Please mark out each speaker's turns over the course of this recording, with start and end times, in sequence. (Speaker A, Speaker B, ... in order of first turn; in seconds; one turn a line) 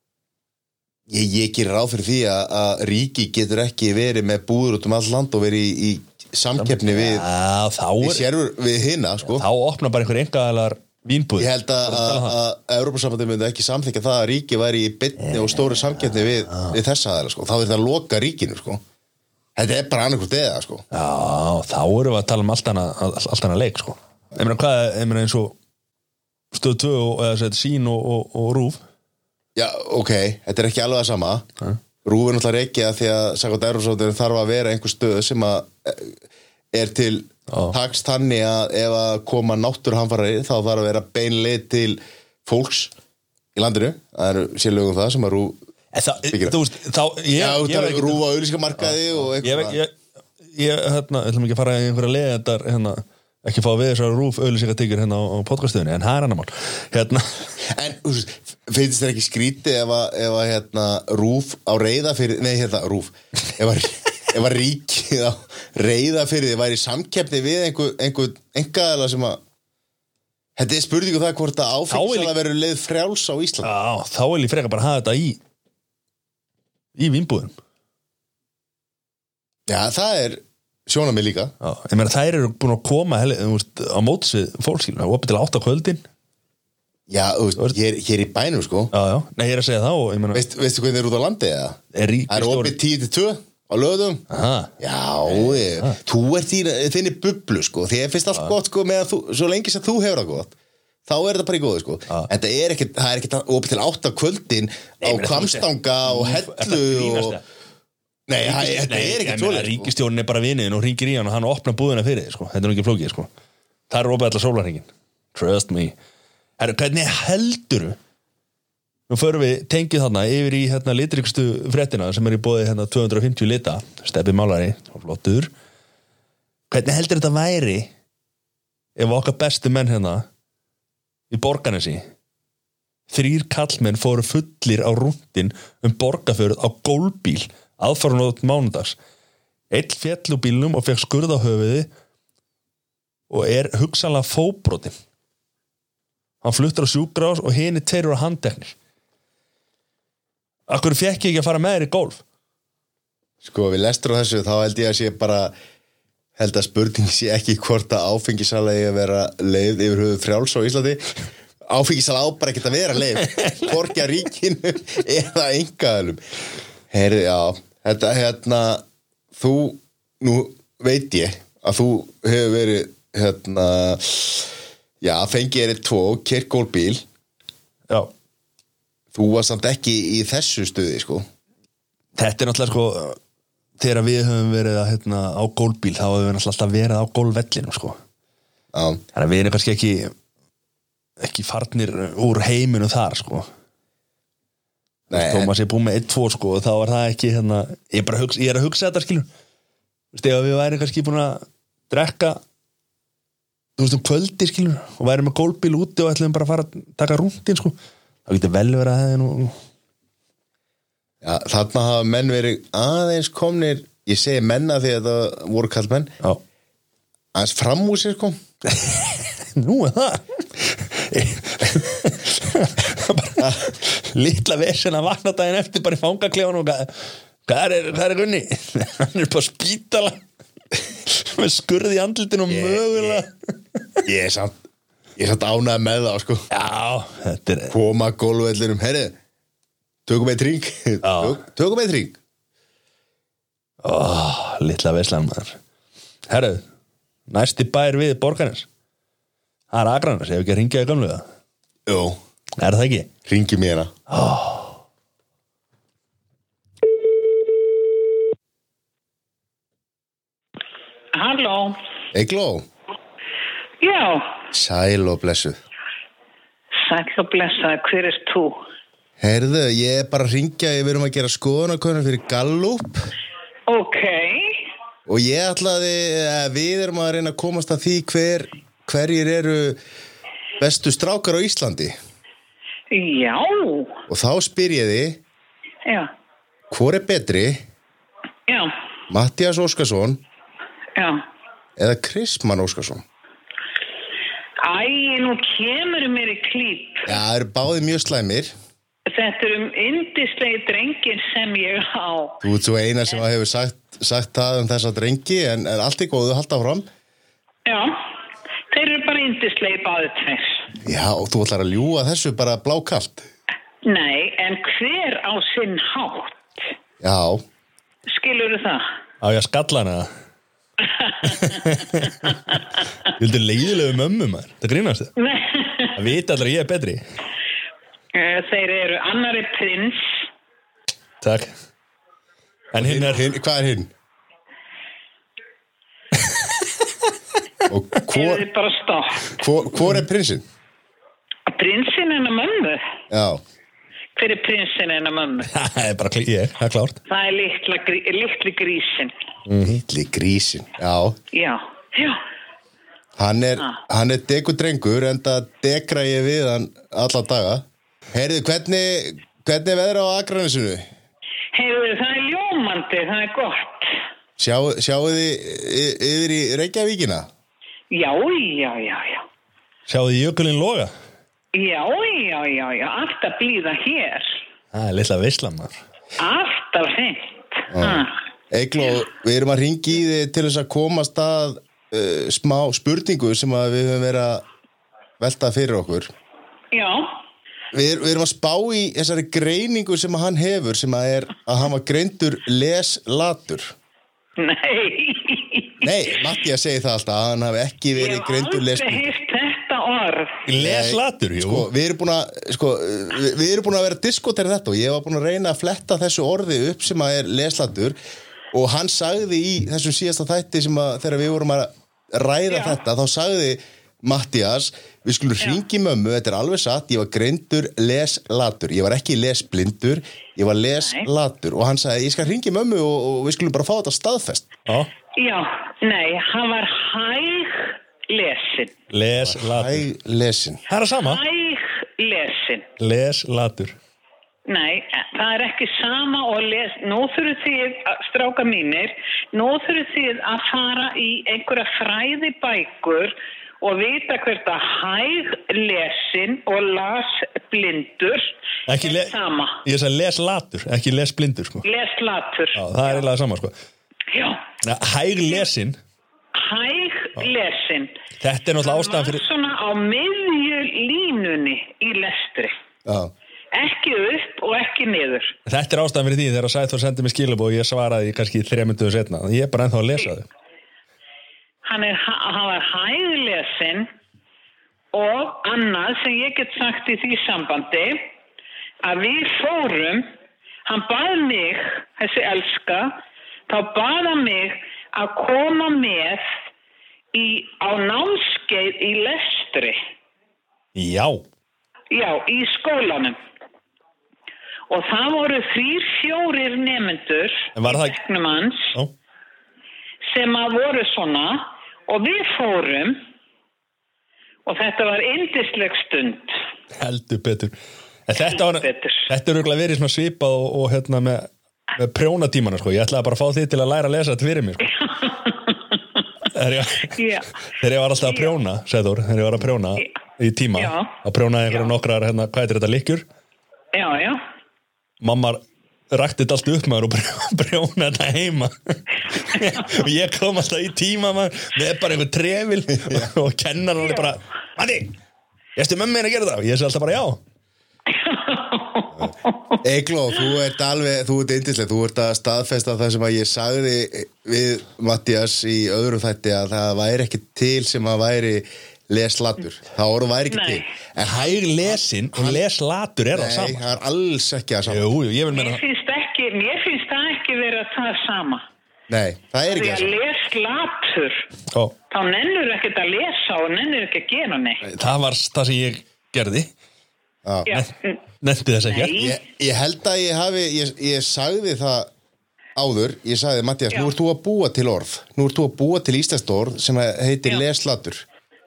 Speaker A: 1.1-7.3
Speaker B: 6.6-8.3
Speaker A: 8.0-9.5
Speaker B: 9.3-12.4
Speaker A: 11.4-18.8
Speaker B: 15.2-16.8
Speaker A: 19.6-20.9
Speaker B: 20.9-25.6
Speaker B: 26.5-28.8
Speaker A: 29.6-31.5
Speaker A: 32.0-36.2
Speaker A: 36.7-42.9
Speaker B: 37.5-37.8
Speaker A: 43.5-45.6
Speaker B: 45.9-48.2
Speaker A: 46.3-46.6
Speaker A: 47.4-49.8
Speaker B: 48.8-50.0
Speaker B: 50.5-57.5
Speaker A: 57.6-69.4
Speaker A: 70.6-73.7
Speaker B: 71.9-72.3
Speaker B: 73.6-75.4
Speaker B: 77.0-77.6
Speaker A: 79.7-81.5
Speaker B: 81.6-86.0
Speaker A: 87.1-88.9
Speaker B: 88.9-90.5
Speaker A: 90.3-94.2
Speaker B: 91.9-92.8
Speaker B: 94.3-94.7
Speaker A: 94.8-100.5
Speaker B: 95.3-96.0
Speaker A: 101.1-107.4
Speaker B: 105.0-107.4
Speaker A: 108.3-109.9
Speaker B: 108.4-113.3
Speaker B: 113.9-115.9
Speaker B: 116.6-118.0
Speaker B: 119.1-125.5
Speaker B: 126.7-127.9
Speaker B: 129.0-130.3
Speaker B: 131.3-132.0
Speaker B: 133.1-139.0
Speaker B: 139.7-141.9
Speaker B: 143.3-144.9
Speaker B: 146.4-148.8
Speaker B: 150.7-152.2
Speaker A: 153.4-155.5
Speaker A: 156.4-161.1
Speaker A: 161.7-166.2
Speaker B: 163.3-163.8
Speaker A: 166.9-168.8
Speaker A: 169.3-174.5
Speaker A: 175.0-177.0
Speaker A: 179.1-181.2
Speaker B: 182.2-183.2
Speaker B: 183.8-188.0
Speaker A: 188.7-189.0
Speaker B: 189.1-190.1
Speaker B: 191.2-193.5
Speaker B: 195.1-199.3
Speaker A: 195.1-195.5
Speaker B: 200.1-202.4
Speaker B: 203.8-209.6
Speaker A: 211.2-216.1
Speaker A: 217.3-218.4
Speaker B: 218.7-230.2
Speaker B: 230.9-234.0
Speaker A: 232.5-233.2
Speaker A: 234.1-234.6
Speaker A: 235.2-236.4
Speaker B: 236.5-237.7
Speaker A: 237.7-239.2
Speaker A: 240.1-242.2
Speaker B: 241.0-241.4
Speaker B: 243.8-245.6
Speaker B: 246.3-246.7
Speaker B: 247.3-248.7
Speaker B: 249.7-251.3
Speaker A: 251.9-252.2
Speaker B: 252.6-253.1
Speaker A: 253.3-253.9
Speaker B: 254.1-254.8
Speaker C: 261.1-261.8
Speaker A: 262.1-262.6
Speaker C: 263.8-264.4
Speaker A: 264.5-265.6
Speaker C: 266.8-268.6
Speaker A: 269.2-273.1
Speaker C: 273.7-274.6
Speaker A: 275.1-279.8
Speaker A: 280.6-281.9
Speaker C: 282.9-284.0
Speaker A: 284.1-285.2
Speaker C: 285.9-286.1
Speaker A: 286.7-287.6
Speaker C: 288.5-288.8
Speaker A: 289.1-290.2
Speaker C: 290.9-291.2
Speaker A: 291.8-293.0
Speaker C: 294.6-297.2
Speaker A: 297.1-298.5
Speaker C: 299.1-302.4
Speaker A: 302.4-306.9
Speaker C: 307.7-308.0
Speaker C: 308.7-310.7
Speaker A: 310.9-313.3
Speaker C: 313.9-316.7
Speaker A: 317.0-317.4
Speaker C: 318.1-318.9
Speaker B: 319.2-320.1
Speaker C: 320.8-321.7
Speaker B: 321.2-325.1
Speaker C: 325.2-326.0
Speaker B: 325.9-327.0
Speaker C: 328.1-330.2
Speaker B: 331.2-331.5
Speaker B: 332.7-333.3
Speaker A: 332.8-333.9
Speaker B: 336.2-336.9
Speaker A: 337.7-338.4
Speaker C: 338.1-339.4
Speaker A: 339.4-340.4
Speaker C: 341.5-342.8
Speaker A: 343.1-343.4
Speaker C: 344.2-345.5
Speaker B: 345.5-347.0
Speaker C: 347.1-349.1
Speaker B: 349.5-349.8
Speaker A: 349.6-351.2
Speaker C: 351.3-352.2
Speaker A: 353.2-360.9
Speaker C: 361.5-364.0
Speaker A: 364.4-367.3
Speaker C: 367.9-369.3
Speaker B: 369.9-370.9
Speaker C: 371.5-374.4
Speaker B: 374.7-375.8
Speaker C: 376.2-378.2
Speaker A: 377.7-384.4
Speaker A: 385.2-386.1
Speaker C: 386.7-387.1
Speaker A: 387.7-393.7
Speaker C: 394.4-395.9
Speaker A: 395.8-399.1
Speaker C: 398.0-400.4
Speaker B: 400.5-401.7
Speaker A: 400.6-408.0
Speaker A: 408.5-424.5
Speaker C: 412.5-412.8
Speaker B: 424.7-424.9
Speaker C: 425.1-428.7
Speaker B: 428.9-429.9
Speaker A: 429.1-430.6
Speaker B: 430.7-431.2
Speaker C: 431.0-432.7
Speaker B: 432.8-433.8
Speaker C: 434.5-449.6
Speaker B: 448.7-451.7
Speaker C: 451.6-453.1
Speaker B: 452.6-453.5
Speaker C: 454.1-454.6
Speaker B: 454.6-455.8
Speaker C: 456.4-458.0
Speaker B: 458.2-459.2
Speaker C: 458.6-462.6
Speaker A: 462.9-463.1
Speaker C: 463.5-465.4
Speaker B: 465.5-470.3
Speaker C: 471.6-473.9
Speaker C: 474.9-478.1
Speaker C: 478.8-480.1
Speaker C: 480.7-483.0
Speaker C: 483.5-486.3
Speaker C: 487.1-489.8
Speaker B: 490.8-491.2
Speaker C: 491.9-493.2
Speaker C: 494.7-498.8
Speaker B: 497.6-498.0
Speaker C: 500.1-503.0
Speaker C: 504.5-506.4
Speaker B: 506.8-507.6
Speaker B: 508.1-514.7
Speaker C: 508.2-509.1
Speaker C: 514.7-516.0
Speaker B: 516.3-517.0
Speaker C: 517.0-517.3
Speaker B: 517.6-523.0
Speaker C: 518.0-518.4
Speaker C: 520.5-521.0
Speaker C: 523.7-524.2
Speaker B: 525.0-535.0
Speaker B: 535.6-537.2
Speaker C: 537.9-539.6
Speaker A: 539.6-552.4
Speaker C: 550.3-550.6
Speaker B: 551.0-553.7
Speaker A: 553.1-554.9
Speaker B: 554.7-555.6
Speaker C: 555.3-558.5
Speaker A: 558.9-560.0
Speaker C: 559.5-561.2
Speaker C: 561.9-564.6
Speaker B: 564.6-566.5
Speaker A: 567.2-567.5
Speaker C: 567.5-568.0
Speaker B: 567.5-569.0
Speaker C: 568.7-569.2
Speaker A: 569.0-571.9
Speaker A: 572.6-578.0